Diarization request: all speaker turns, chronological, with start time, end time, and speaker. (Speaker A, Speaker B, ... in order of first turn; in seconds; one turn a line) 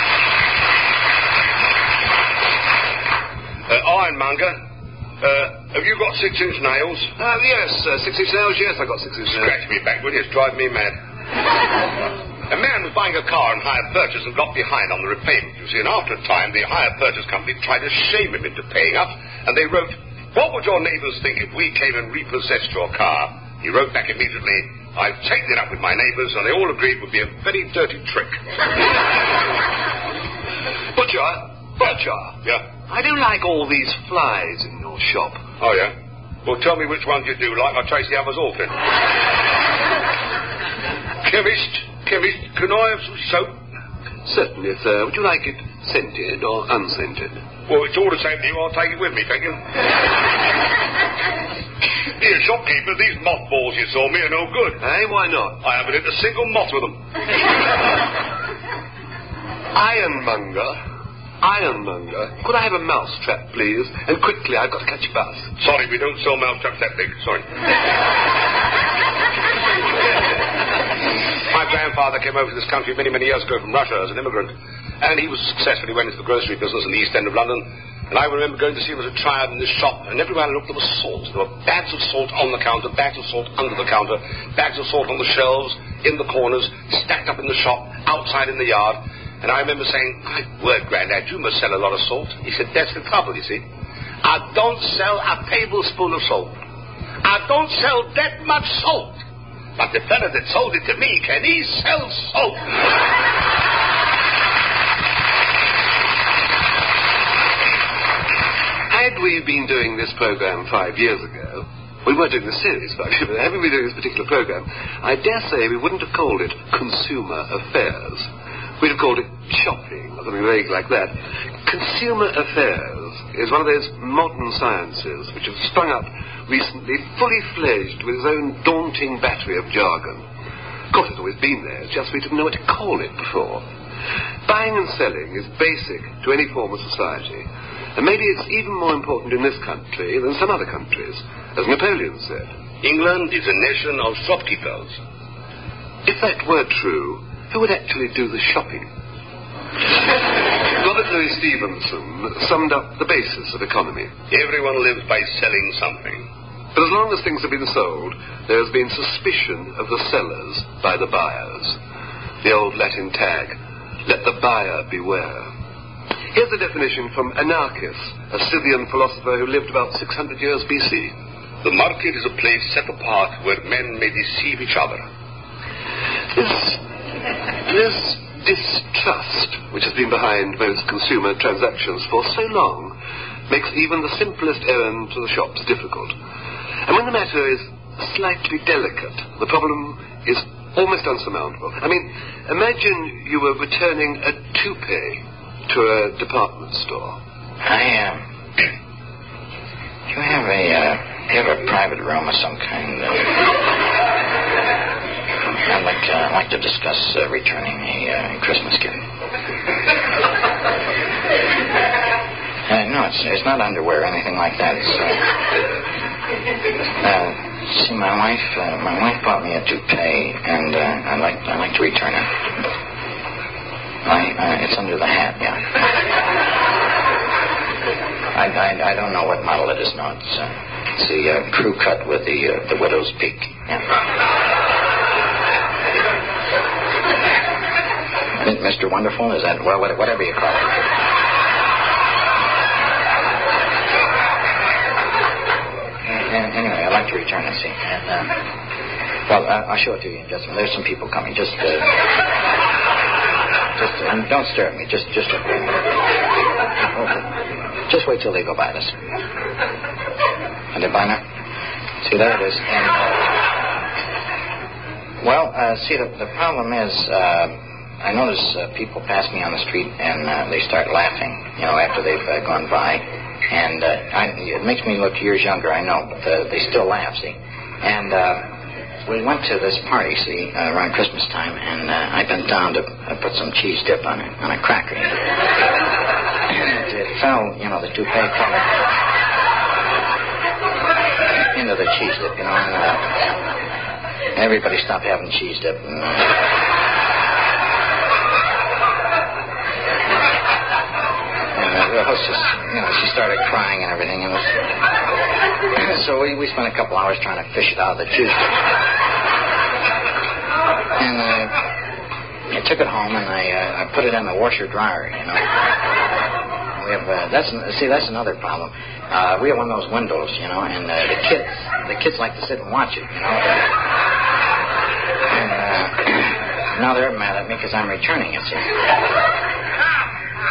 Speaker A: 3.7-4.6
Speaker A: 5.2-7.1
Speaker B: 7.2-9.5
Speaker A: 9.3-11.0
Speaker A: 12.5-28.4
Speaker B: 30.9-32.4
Speaker B: 32.9-35.4
Speaker A: 35.6-35.9
Speaker A: 36.5-38.7
Speaker A: 41.2-43.5
Speaker B: 44.2-47.4
Speaker A: 47.7-49.6
Speaker A: 52.2-54.8
Speaker B: 54.8-55.6
Speaker A: 55.6-57.0
Speaker B: 59.7-60.8
Speaker B: 61.4-65.5
Speaker A: 65.6-67.5
Speaker A: 71.5-93.6
Speaker A: 94.2-96.6
Speaker A: 97.2-99.2
Speaker A: 99.8-102.7
Speaker B: 108.9-118.3
Speaker B: 118.8-130.2
Speaker B: 130.9-133.6
Speaker B: 134.5-142.5
Speaker A: 142.8-145.0
Speaker B: 146.1-148.9
Speaker B: 150.6-154.1
Speaker A: 154.3-156.2
Speaker B: 156.8-161.8
Speaker B: 162.4-165.5
Speaker B: 166.3-171.1
Speaker A: 171.6-175.1
Speaker B: 176.3-176.8
Speaker B: 177.7-182.9
Speaker B: 183.5-186.2
Speaker B: 186.9-197.2
Speaker C: 197.6-198.2
Speaker C: 200.1-203.6
Speaker C: 205.7-209.0
Speaker C: 212.7-215.4
Speaker C: 217.0-222.4
Speaker C: 224.0-225.7
Speaker C: 228.3-233.9
Speaker C: 238.3-240.9
Speaker C: 246.1-248.4
Speaker C: 249.3-252.0
Speaker C: 253.8-256.1
Speaker C: 256.9-259.1
Speaker C: 260.7-261.2
Speaker C: 262.0-263.4
Speaker C: 265.2-278.5
Speaker C: 279.1-285.3
Speaker C: 286.5-288.8
Speaker C: 291.5-293.3
Speaker C: 294.3-296.5
Speaker C: 301.5-304.6
Speaker C: 305.7-308.7
Speaker C: 311.0-311.6
Speaker C: 312.5-315.6
Speaker C: 316.8-323.7
Speaker C: 325.3-328.7